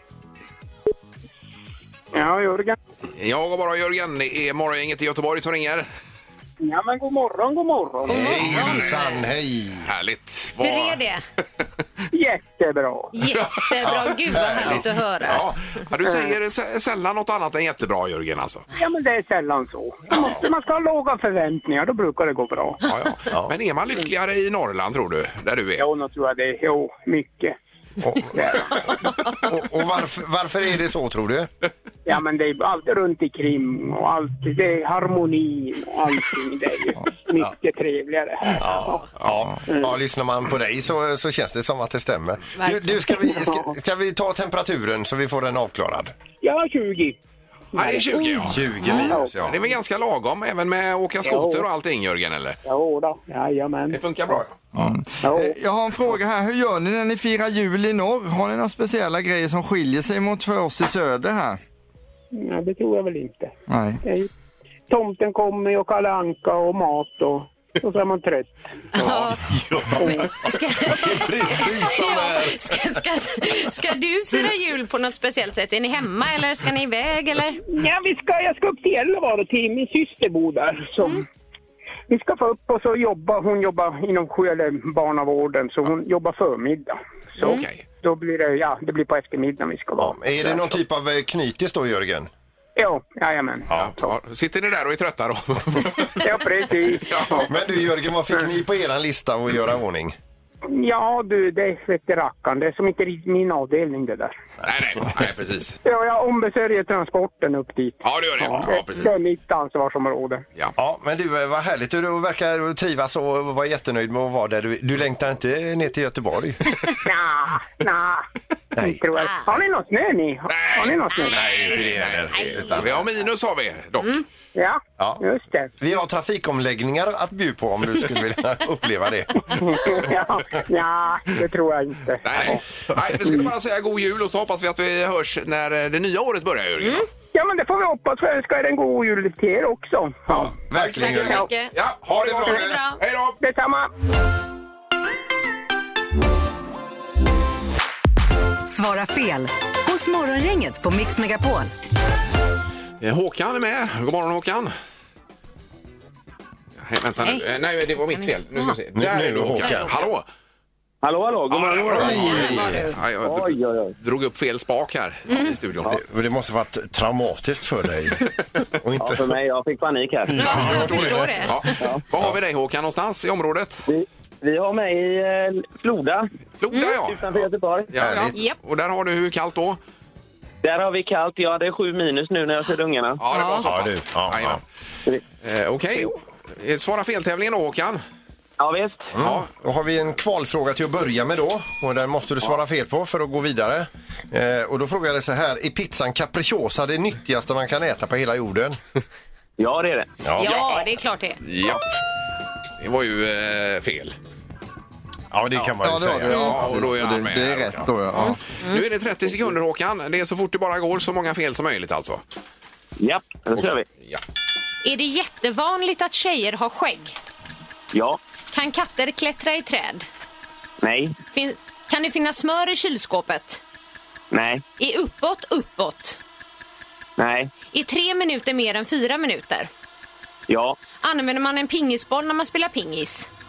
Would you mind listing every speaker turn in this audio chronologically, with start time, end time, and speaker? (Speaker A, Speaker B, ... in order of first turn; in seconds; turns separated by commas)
Speaker A: 2.1-2.8, Speaker B: 3.2-5.9, Speaker A: 6.6-8.4, Speaker C: 8.1-9.2, Speaker D: 8.1-9.9, Speaker B: 8.5-9.0, Speaker B: 9.8-11.0, Speaker C: 10.6-11.2, Speaker A: 12.1-13.1, Speaker C: 13.1-15.4, Speaker D: 13.8-14.9, Speaker B: 15.2-18.6, Speaker A: 16.0-16.3, Speaker A: 18.7-22.8, Speaker B: 22.8-25.9, Speaker A: 25.8-27.6, Speaker D: 28.0-28.8, Speaker A: 28.3-28.9, Speaker D: 29.4-31.5, Speaker A: 32.0-39.1, Speaker D: 38.6-46.1, Speaker C: 42.6-43.0, Speaker A: 43.4-43.6, Speaker A: 46.4-47.1, Speaker A: 47.7-49.5, Speaker B: 47.8-52.6, Speaker D: 48.5-49.6, Speaker A: 51.2-51.7, Speaker A: 52.6-54.4, Speaker B: 53.9-54.5, Speaker E: 54.7-61.6, Speaker A: 55.2-55.5, Speaker A: 62.3-63.5, Speaker E: 63.7-64.0, Speaker A: 64.0-64.3, Speaker A: 64.9-68.8, Speaker C: 68.9-69.4, Speaker D: 69.0-72.9, Speaker A: 70.0-70.3, Speaker C: 70.0-77.6, Speaker A: 77.7-81.2, Speaker A: 82.1-90.7, Speaker B: 87.4-87.8, Speaker D: 90.0-92.3, Speaker A: 92.8-94.1, Speaker D: 93.7-94.0, Speaker B: 93.7-96.2, Speaker A: 96.2-97.5, Speaker B: 97.0-97.5, Speaker D: 97.3-100.2, Speaker A: 100.7-104.4, Speaker B: 104.6-105.8, Speaker A: 105.8-110.4, Speaker B: 108.0-109.1, Speaker D: 110.8-116.6, Speaker A: 117.0-118.2, Speaker D: 118.7-119.0, Speaker A: 118.8-121.6, Speaker B: 120.5-124.2, Speaker C: 121.2-122.9, Speaker D: 121.6-123.1, Speaker A: 124.5-125.7, Speaker D: 125.8-130.1, Speaker A: 129.5-132.6, Speaker B: 132.2-137.1, Speaker A: 137.3-141.4, Speaker D: 140.5-141.4, Speaker C: 140.7-143.0, Speaker B: 141.7-143.3, Speaker D: 142.4-142.7, Speaker A: 143.4-143.9, Speaker F: 148.6-151.7, Speaker B: 153.0-154.7, Speaker B: 156.8-160.2, Speaker C: 158.1-158.8, Speaker D: 158.9-159.9, Speaker C: 159.6-159.9, Speaker G: 161.0-162.6, Speaker B: 161.5-165.9, Speaker D: 161.8-162.9, Speaker C: 162.4-162.9, Speaker G: 163.2-163.9, Speaker C: 165.3-165.6, Speaker D: 165.9-168.3, Speaker D: 168.8-169.3, Speaker G: 169.0-170.4, Speaker D: 170.3-171.3, Speaker B: 170.3-173.9, Speaker C: 170.3-171.7, Speaker G: 173.9-176.3, Speaker B: 176.6-179.8, Speaker C: 176.7-177.0, Speaker G: 177.0-177.9, Speaker D: 177.9-178.4, Speaker G: 180.6-183.2, Speaker B: 183.2-184.6, Speaker C: 183.3-183.7, Speaker D: 183.6-184.6, Speaker B: 185.4-188.0, Speaker G: 188.6-189.1, Speaker D: 189.1-198.8, Speaker B: 189.2-189.5, Speaker G: 199.6-200.8, Speaker D: 200.2-200.5, Speaker C: 200.4-201.4, Speaker B: 200.4-200.8, Speaker B: 201.4-202.0, Speaker B: 202.8-204.2, Speaker D: 205.3-206.9, Speaker E: 205.8-208.4, Speaker B: 206.3-212.2, Speaker C: 208.2-208.8, Speaker G: 213.0-213.8, Speaker B: 213.5-214.2, Speaker C: 214.8-217.1, Speaker G: 217.9-218.2, Speaker C: 218.5-220.1, Speaker G: 220.8-221.2, Speaker C: 221.3-223.6, Speaker G: 224.3-224.6, Speaker C: 224.8-226.2, Speaker G: 227.2-227.5, Speaker C: 227.7-229.7, Speaker G: 230.5-230.8, Speaker C: 231.0-233.3